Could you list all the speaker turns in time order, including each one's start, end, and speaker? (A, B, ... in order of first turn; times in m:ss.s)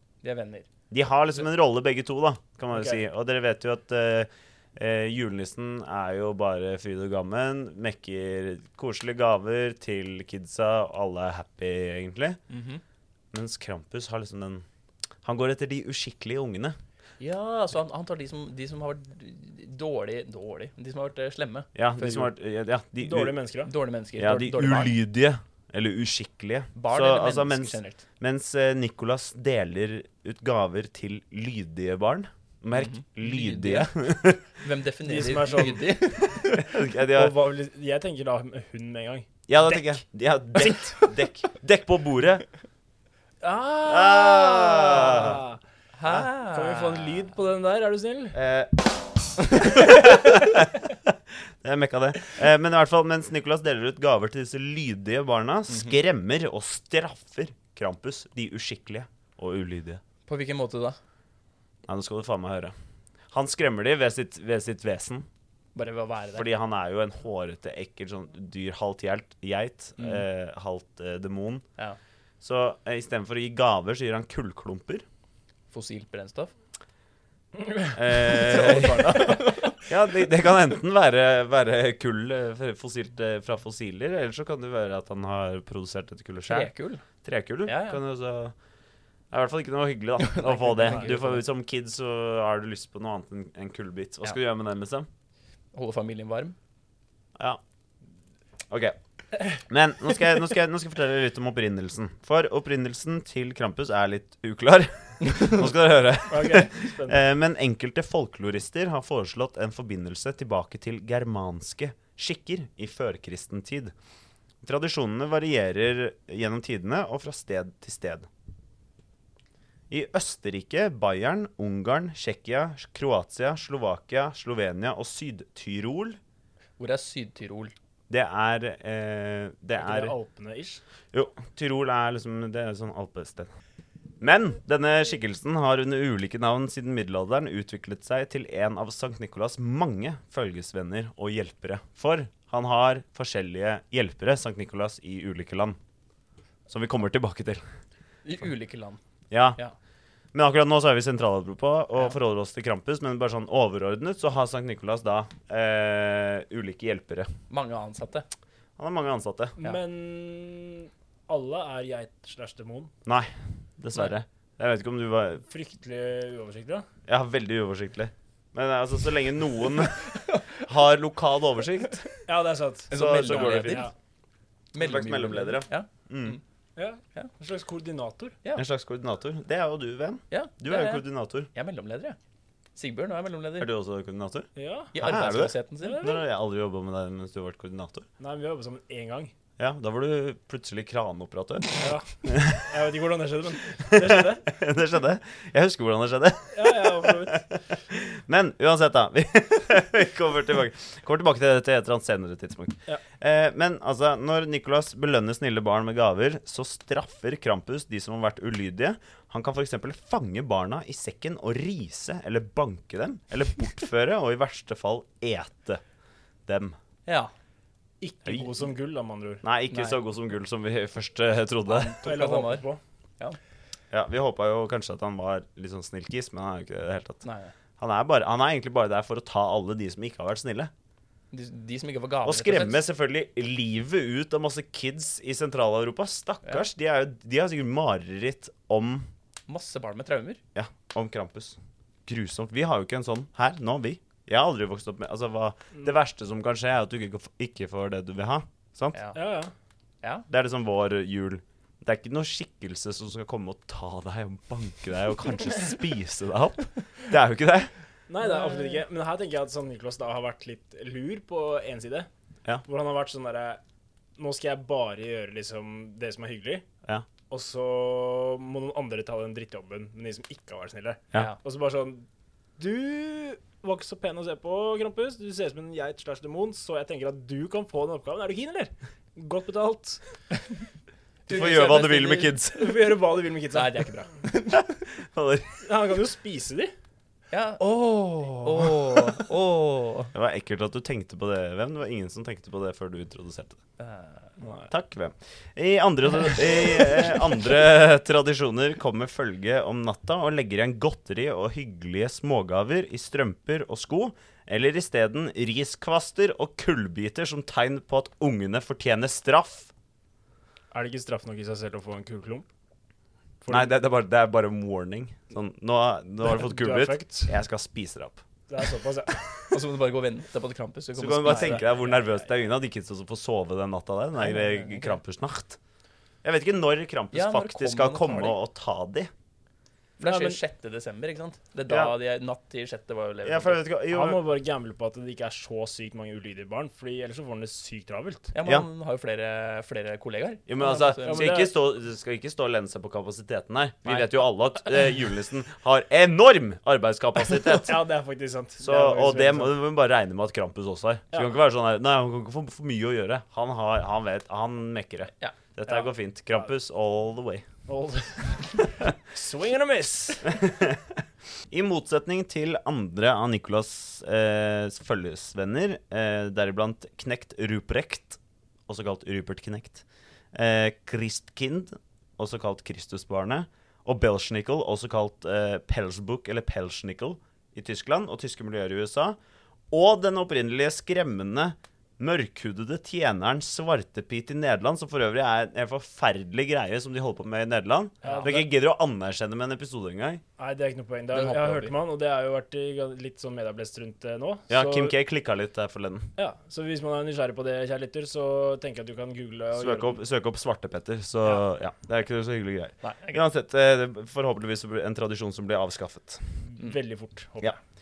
0:00.2-0:00.7 A
0:00.9-0:12.4 B
0:02.7-0:03.0 C
0:12.5-0:12.8 A
0:13.3-0:14.6 B
0:15.2-0:16.8 B
0:17.2-0:22.3 A
0:21.8-0:23.4 B
0:23.0-0:23.7 C
0:23.7-0:25.0 A
0:24.2-0:34.4 B
0:26.8-0:28.0 A
0:32.7-0:36.7 A
0:35.0-0:35.9 C
0:36.5-0:37.4 B
0:37.1-0:39.9 C
0:39.5-0:42.5 B
0:40.6-0:41.1 C
0:43.4-0:45.6 C
0:43.8-0:45.4 B
0:45.9-0:47.2 A
0:46.4-0:48.4 C
0:48.3-0:48.8 B
0:49.5-0:50.6 B
0:51.6-1:00.0 B
0:55.7-0:56.0 A
1:00.3-1:01.0 A
1:01.9-1:02.7 B
1:03.3-1:05.3 B
1:05.8-1:06.5 A
1:06.3-1:11.6 B
1:10.0-1:10.2 A
1:12.4-1:15.0 B
1:15.7-1:16.5 A
1:17.9-1:26.7 B
1:18.2-1:19.8 A
1:26.5-1:27.0 A
1:27.2-1:28.5 B
1:27.6-1:28.0 A
1:29.3-1:35.1 B
1:30.2-1:31.4 A
1:30.8-1:31.2 C
1:35.7-1:36.6 A
1:38.7-1:39.0 B
1:39.5-1:53.9 B
1:46.3-1:47.2 C
1:54.6-1:58.3 B
1:59.9-2:06.2 B
2:06.8-2:07.7 A
2:08.1-2:10.2 B
2:09.8-2:10.8 C
2:11.1-2:13.5 B
2:14.2-2:25.8 B
2:26.7-2:27.6 B
2:28.2-2:29.0 A
2:29.3-2:29.6 B
2:30.3-2:37.3 B
2:37.5-2:38.3 A
2:38.8-2:39.6 B
2:39.6-2:42.9 C
2:43.0-2:45.4 B
2:45.5-2:46.8 C
2:47.1-2:50.1 B
2:50.0-2:50.4 A
2:50.6-2:52.0 B
2:52.3-2:53.9 C
2:52.9-2:53.9 A
2:52.9-2:53.9 B
2:54.7-2:56.4 A
2:54.8-2:56.4 B
2:56.8-2:58.4 C
2:58.6-3:01.5 B
3:00.3-3:02.2 A
3:02.8-3:03.7 A
3:03.6-3:08.1 B
3:04.6-3:05.1 C
3:04.9-3:06.1 A
3:05.8-3:06.2 C
3:08.2-3:09.3 C
3:09.6-3:12.6 B
3:11.8-3:14.4 C
3:13.9-3:35.8 B
3:16.5-3:17.4 C
3:36.5-3:36.8 B
3:37.1-3:37.3 A
3:38.0-3:39.4 C
3:38.2-3:38.5 B
3:39.4-3:42.0 B
3:39.7-3:40.0 A
3:41.7-3:42.7 A
3:42.0-3:42.8 C
3:43.9-3:47.2 B
3:47.2-3:47.5 A
3:47.8-3:50.7 B
3:51.3-3:52.8 A
3:52.2-3:59.1 B
3:59.5-4:00.4 A
4:00.6-4:09.0 B
4:08.9-4:09.2 A
4:09.2-4:09.5 C
4:10.0-4:10.3 A
4:10.3-4:17.7 B
4:18.1-4:22.1 C
4:22.6-4:23.6 C
4:24.2-4:26.6 C
4:27.3-4:32.1 C
4:32.6-4:40.0 C
4:41.3-4:42.4 A
4:41.3-4:42.8 B
4:42.5-4:43.9 C
4:43.5-4:44.7 A
4:44.5-4:45.6 B
4:45.6-4:46.7 C
4:47.3-4:50.1 A
4:50.1-4:53.6 B
4:53.8-4:54.3 A
4:54.4-4:54.7 C
4:54.7-5:09.7 B
5:10.7-5:12.5 C
5:13.4-5:13.7 C
5:13.5-5:18.2 B
5:16.2-5:17.3 C
5:18.5-5:19.2 C
5:19.5-5:21.7 A
5:21.0-5:25.6 B
5:21.3-5:21.9 C
5:24.2-5:25.0 A
5:26.2-5:29.1 B
5:27.1-5:28.4 A
5:30.0-5:33.6 A
5:30.1-5:30.4 C
5:31.7-5:32.0 B
5:33.2-5:34.2 B
5:33.9-5:38.3 C
5:38.3-5:41.3 A
5:40.5-5:47.9 B
5:40.6-5:41.5 C
5:47.5-5:49.6 C
5:48.6-5:57.4 B
5:57.7-6:00.4 C
6:01.5-6:19.2 B
6:19.7-6:30.2 B
6:28.0-6:28.3 A
6:28.0-6:28.5 C
6:30.4-6:34.9 C
6:31.1-6:31.8 A
6:34.5-6:36.1 B
6:36.2-6:40.0 C
6:39.6-6:46.5 B
6:42.8-6:43.2 A
6:46.5-6:47.6 C